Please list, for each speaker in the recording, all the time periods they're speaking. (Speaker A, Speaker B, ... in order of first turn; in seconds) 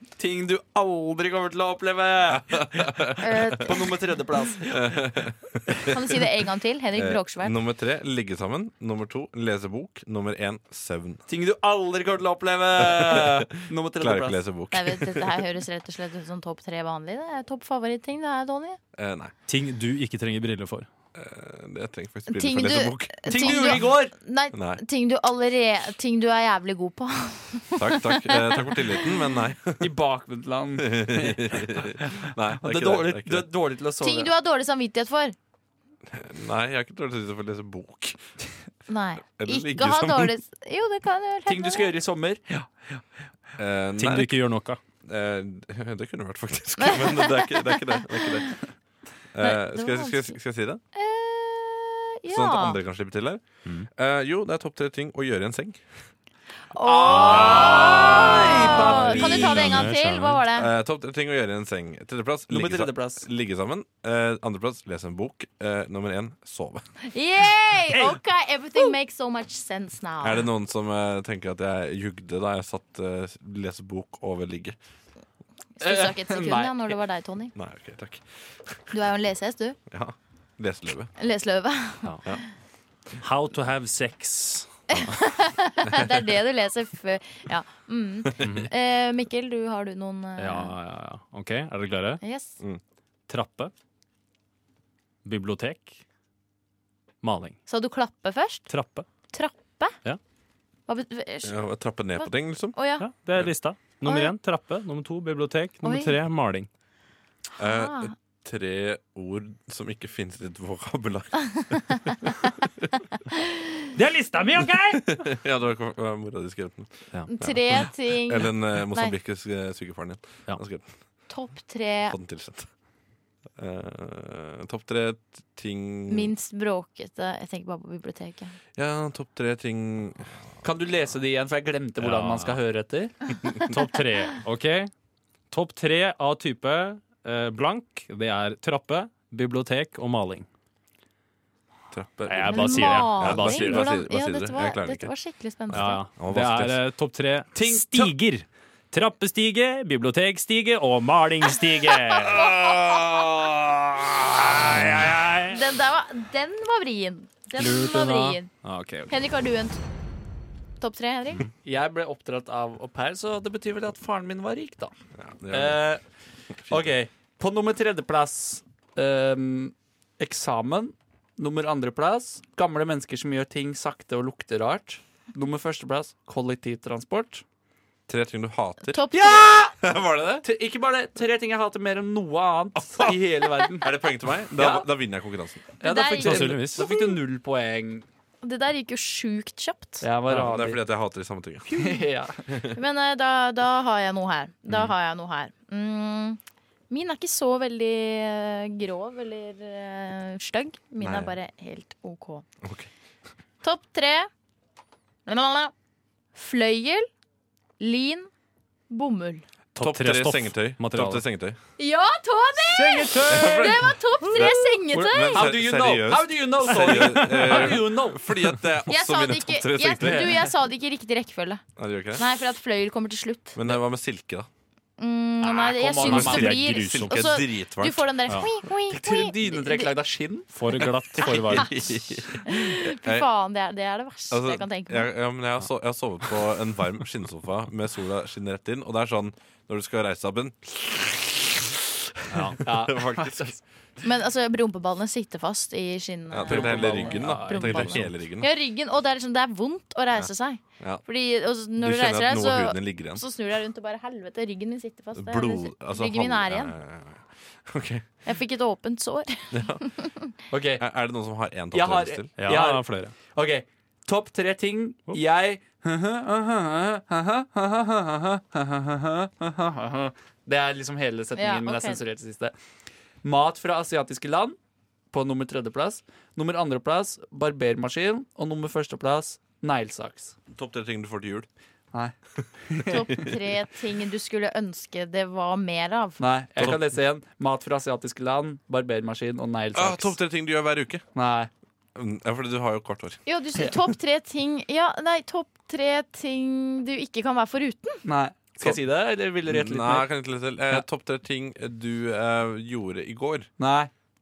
Speaker A: 0.2-5.0, 11.3-14.4, 23.3-24.1, 29.8-34.3, 41.5-43.0, 56.8-59.7, 62.5-63.2, 75.8-77.0, 130.6-133.1, 147.5-148.1, 161.6-164.9, 165.5-166.0, 166.7-177.4, 179.1-179.7, 180.4-183.9, 184.5-184.9, 185.8-188.1, 190.0-190.8, 191.7-192.4, 214.3-218.2, 220.0-220.4, 225.4-226.8, 228.9-230.5, 242.6-243.6, 246.4-247.9, 260.5-260.8, 261.7-272.5, 273.2-274.6, 275.1-280.4, 282.6-283.2, 286.2-290.1, 291.1-291.5, 298.0-300.1, 303.6-303.9
Speaker B: 2.3-3.8, 4.6-6.2, 6.9-11.2, 12.8-15.5, 18.9-19.3, 21.1-23.9, 24.5-24.8, 27.8-29.9, 30.8-33.5, 36.1-38.2, 39.4-40.3, 43.6-44.5, 45.0-48.6, 49.3-50.8, 52.3-55.8, 57.3-59.9, 60.5-66.8, 70.2-74.8, 77.5-78.7, 79.9-81.1, 101.4-102.8, 107.6-111.9, 114.8-120.9, 122.1-122.7, 123.6-126.3, 128.8-130.5, 141.9-145.1, 145.7-146.8, 154.7-155.1, 165.2-165.9, 166.7-166.9, 178.1-180.4, 182.9-183.2, 183.8-185.7, 190.3-191.9, 192.5-192.8, 201.0-201.3, 202.6-202.9, 209.8-211.6, 213.2-220.4, 221.8-222.3, 223.5-224.5, 226.0-228.4, 231.2-233.3, 234.3-241.7, 242.4-243.6, 246.3-248.5, 251.8-253.2, 255.1-258.1, 259.5-259.8, 260.8-262.3, 280.5-281.5, 282.4-283.3, 289.7-291.0, 291.9-293.9, 299.5-303.5
Speaker C: 3.2-3.8, 5.9-7.5, 14.7-18.8, 22.3-29.2, 34.0-35.3, 38.9-41.9, 46.8-48.4, 49.4-50.3, 50.9-52.8, 56.7-60.7, 67.1-70.5, 75.8-77.5, 78.9-79.8, 81.2-82.4, 84.9-90.7, 92.2-92.5, 97.7-98.7, 99.3-100.0, 100.9-101.5, 102.2-103.0, 104.0-104.3, 105.8-106.1, 107.5-108.1, 117.3-119.1, 121.3-122.2, 126.1-128.5, 142.4-146.0, 151.9-153.3, 155.5-158.5, 159.1-159.8, 160.8-161.5, 178.9-179.6, 185.8-187.2, 188.4-190.0, 192.7-196.4, 196.9-202.4, 203.6-204.3, 205.3-205.7, 206.3-207.1, 207.8-208.3, 208.9-209.4, 211.8-215.4, 218.9-221.6, 222.2-223.6, 225.0-229.9, 231.2-231.9, 232.4-235.1, 244.0-256.7, 258.2-260.3, 271.4-272.0, 282.9-286.2, 293.2-298.0
Speaker D: 19.5-20.9, 44.0-44.8, 58.8-60.4, 67.9-68.2, 83.2-85.1, 88.4-88.7, 90.4-92.2, 93.3-93.7, 95.2-96.0, 97.2-97.6, 98.7-99.0, 103.0-106.7, 113.9-115.2, 132.0-132.6, 133.6-134.9, 135.5-140.4, 142.3-143.8, 145.7-155.6, 157.6-159.1, 186.2-186.8, 209.7-211.2, 212.7-213.7, 216.9-217.5, 226.0-227.3, 230.5-231.7, 242.3-242.6, 247.6-248.1, 262.4-263.1